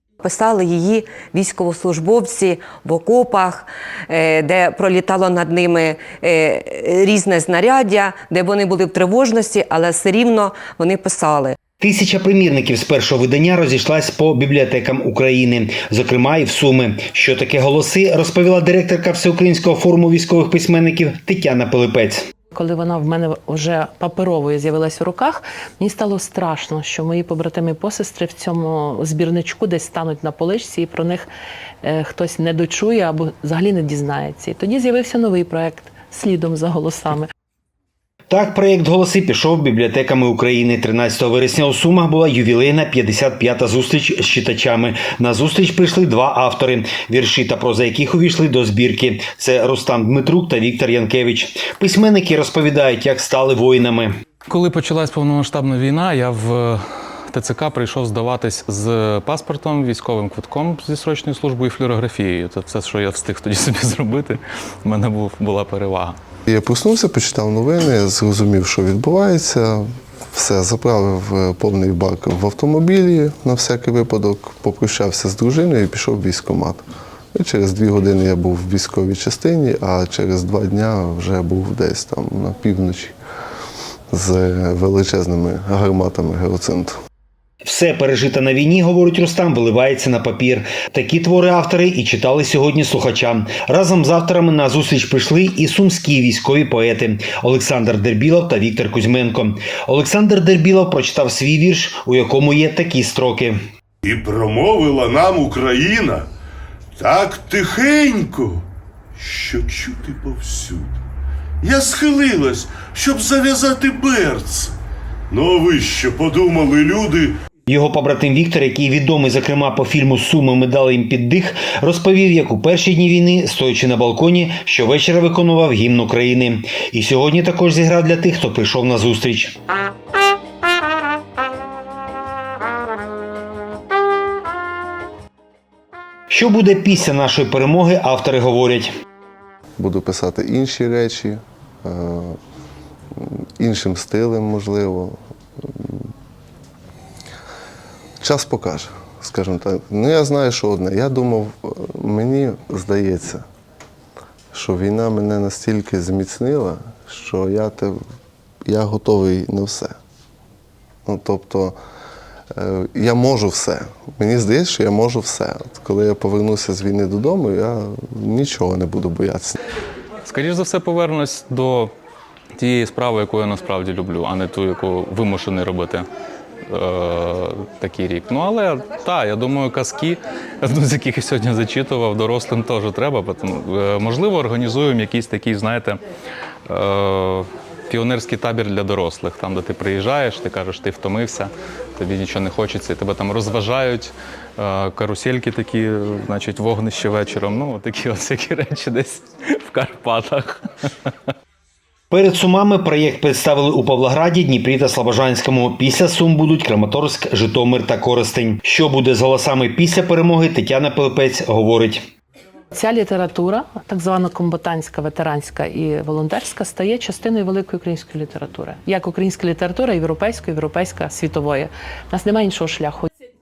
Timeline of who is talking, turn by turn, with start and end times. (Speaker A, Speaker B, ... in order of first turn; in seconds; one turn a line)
Speaker A: 0.2-11.6
Speaker B: 11.8-22.2
Speaker C: 22.6-31.2
Speaker C: 31.8-37.3
Speaker B: 38.3-54.1
Speaker D: 54.5-66.2
Speaker E: 66.5-76.8
Speaker E: 77.3-83.2
Speaker E: 84.1-87.0
Speaker B: 87.6-103.6
Speaker F: 104.0-106.3
Speaker F: 107.0-111.0
Speaker F: 111.6-114.8
Speaker F: 115.3-117.4
Speaker B: 117.7-129.6
Speaker B: 136.3-138.9
Speaker E: 139.8-142.4
Speaker E: 143.2-146.0
Speaker E: 148.2-153.4
Speaker E: 154.5-158.0
Speaker E: 158.7-160.0
Speaker E: 161.1-161.8
Speaker E: 162.6-169.6
Speaker D: 170.2-171.9
Speaker D: 172.6-176.1
Speaker D: 176.7-186.0
Speaker D: 186.7-201.1
Speaker B: 202.1-212.0
Speaker C: 212.8-223.1